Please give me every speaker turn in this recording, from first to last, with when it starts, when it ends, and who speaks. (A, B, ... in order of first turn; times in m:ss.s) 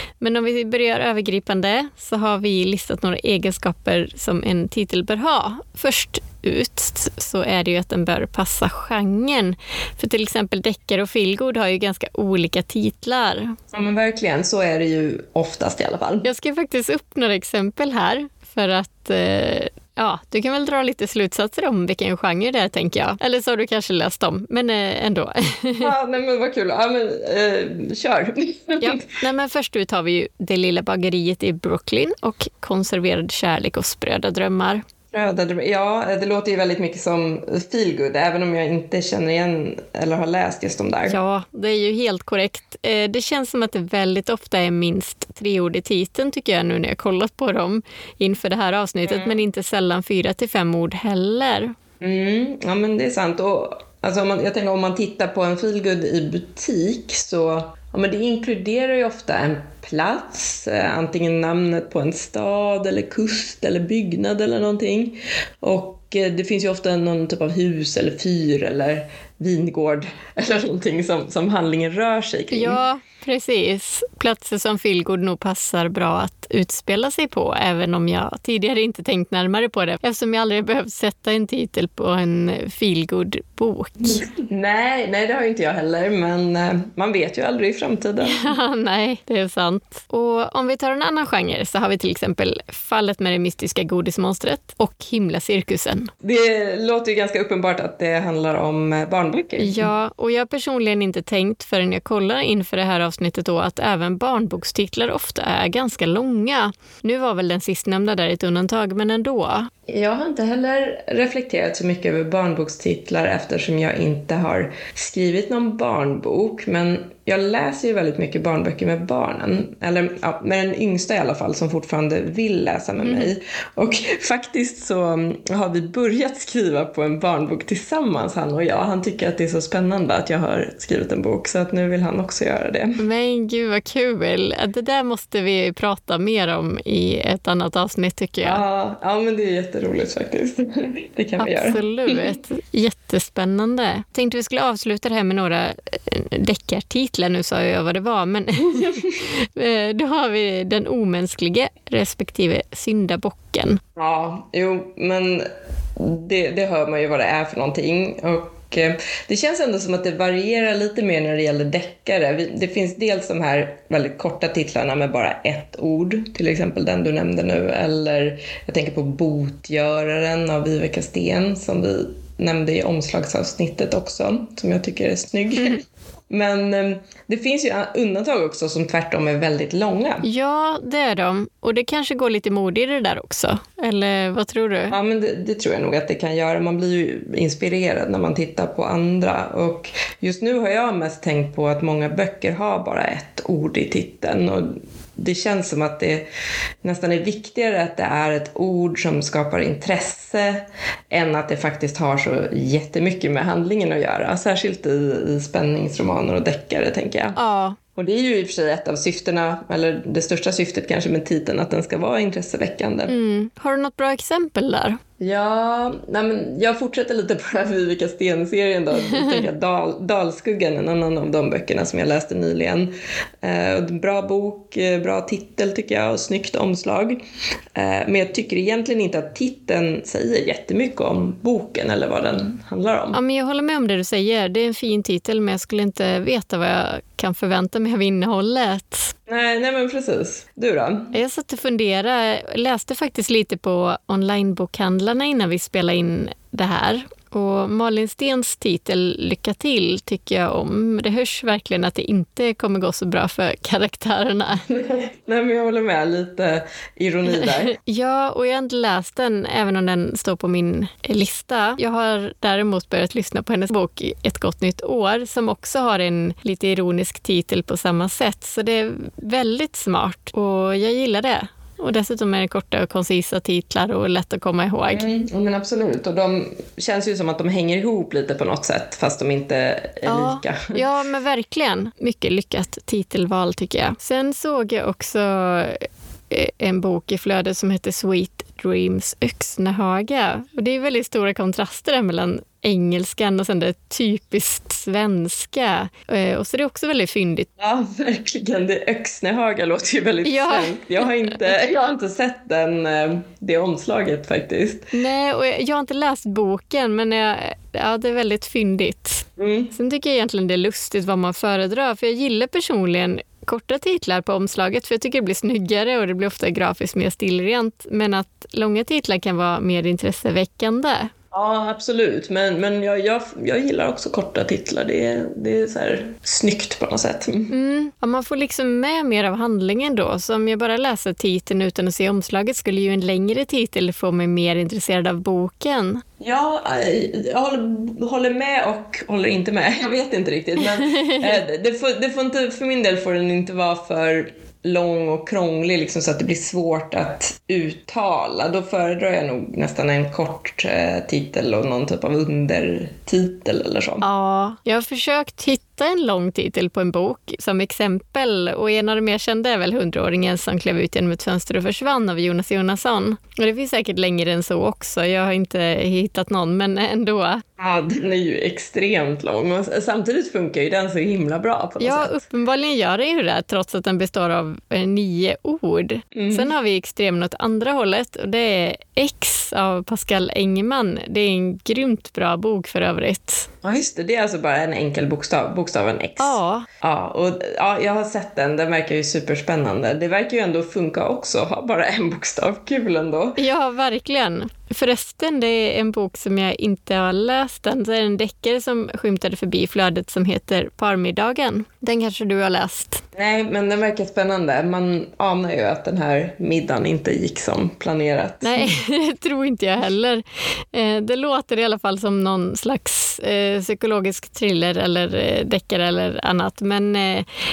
0:00.2-0:13.6 A
0:13.7-0:16.3 B
0:16.2-0:25.9 A
0:25.8-0:29.0 B
0:28.8-0:34.8 A
0:35.1-0:41.2 B
0:41.1-0:51.7 A
0:49.0-0:49.4 B
0:52.0-1:12.8 B
1:12.5-1:24.2 A
1:24.0-1:28.5 B
1:28.2-1:36.1 A
1:36.2-1:39.9 B
1:39.6-1:49.7 A
1:49.9-2:13.0 B
2:03.0-2:03.3 A
2:13.0-2:18.6 A
2:18.4-2:22.3 B
2:21.4-2:33.8 A
2:28.7-2:29.0 B
2:34.0-3:00.2 B
3:00.2-3:05.0 A
3:04.9-3:16.2 B
3:16.8-3:27.4 B
3:27.4-3:27.8 A
3:28.0-3:33.1 B
3:33.1-3:35.0 A
3:35.2-3:47.2 B
3:47.7-3:53.2 B
3:53.1-3:59.1 A
3:59.3-4:01.1 B
4:01.1-4:14.6 A
4:14.6-4:17.8 B
4:17.3-4:35.1 A
4:34.9-4:40.8 B
4:40.0-4:57.5 A
4:57.6-5:04.9 B
5:00.2-5:00.8 A
5:04.9-5:21.1 A
5:09.4-5:09.7 B
5:21.3-5:27.5 B
5:27.5-5:36.0 A
5:36.2-5:54.0 B
5:40.8-5:41.4 A
5:54.0-6:07.4 A
6:07.6-6:12.1 B
6:11.8-6:23.5 A
6:16.1-6:16.5 B
6:23.6-6:33.4 B
6:26.2-6:26.7 A
6:33.4-6:43.0 A
6:43.2-6:48.7 B
6:48.4-6:57.3 A